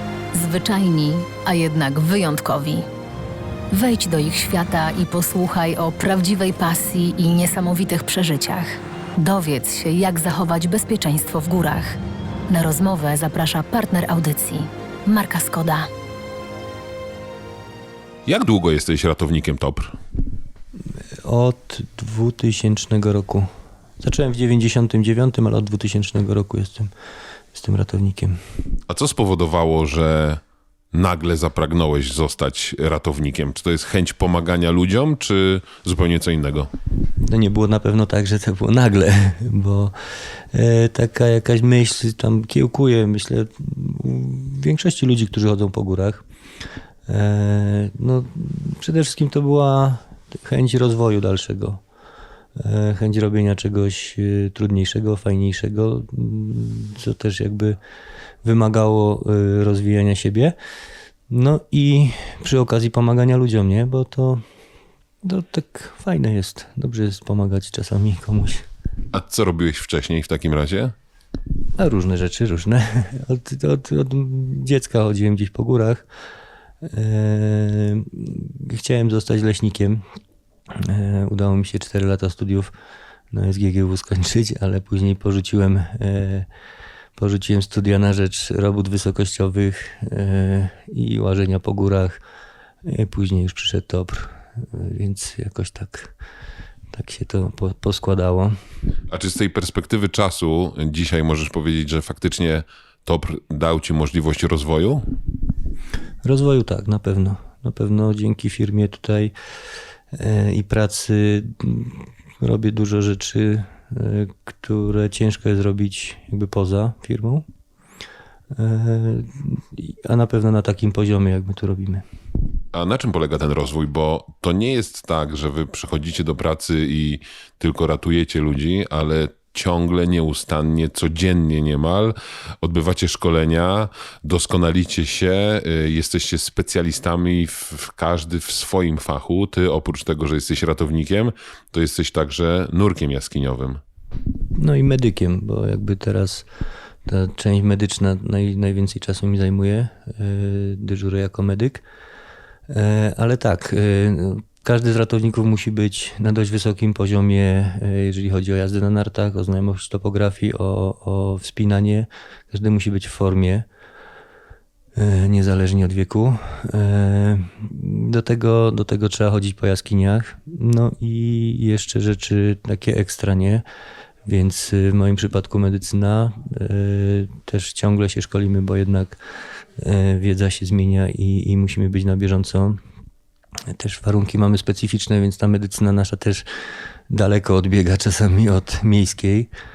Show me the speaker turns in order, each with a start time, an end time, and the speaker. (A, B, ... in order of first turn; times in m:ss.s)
0:00.3-0:02.8 A
0:03.7-0:12.0 A
0:12.5-0:15.9 A
0:18.3-0:20.0 B
0:21.2-0:23.5 C
0:24.0-0:26.9 C
0:27.5-0:28.4 C
0:28.9-0:30.4 B
0:30.9-0:36.7 B
0:37.2-0:39.9 C
0:40.5-0:46.2 C
0:47.1-0:51.8 C
0:52.6-0:57.8 C
0:58.4-1:00.6 C
1:01.3-1:04.4 C
1:05.2-1:08.6 C
1:09.1-1:10.9 B
1:11.8-1:16.1 C
1:16.8-1:20.0 C
1:20.7-1:22.7 C
1:23.3-1:26.5 C
1:27.2-1:32.2 C
1:32.8-1:36.1 C
1:36.9-1:38.6 C
1:39.1-1:45.0 B
1:46.2-1:49.3 C
1:50.1-1:57.5 C
1:58.5-2:02.0 C
2:02.7-2:23.8 B
2:24.6-2:26.5 C
2:27.1-2:31.8 C
2:32.7-2:43.7 C
2:45.0-2:53.6 C
2:54.3-2:59.2 C
2:59.8-3:02.8 C
3:03.7-3:06.4 C
3:07.1-3:09.5 C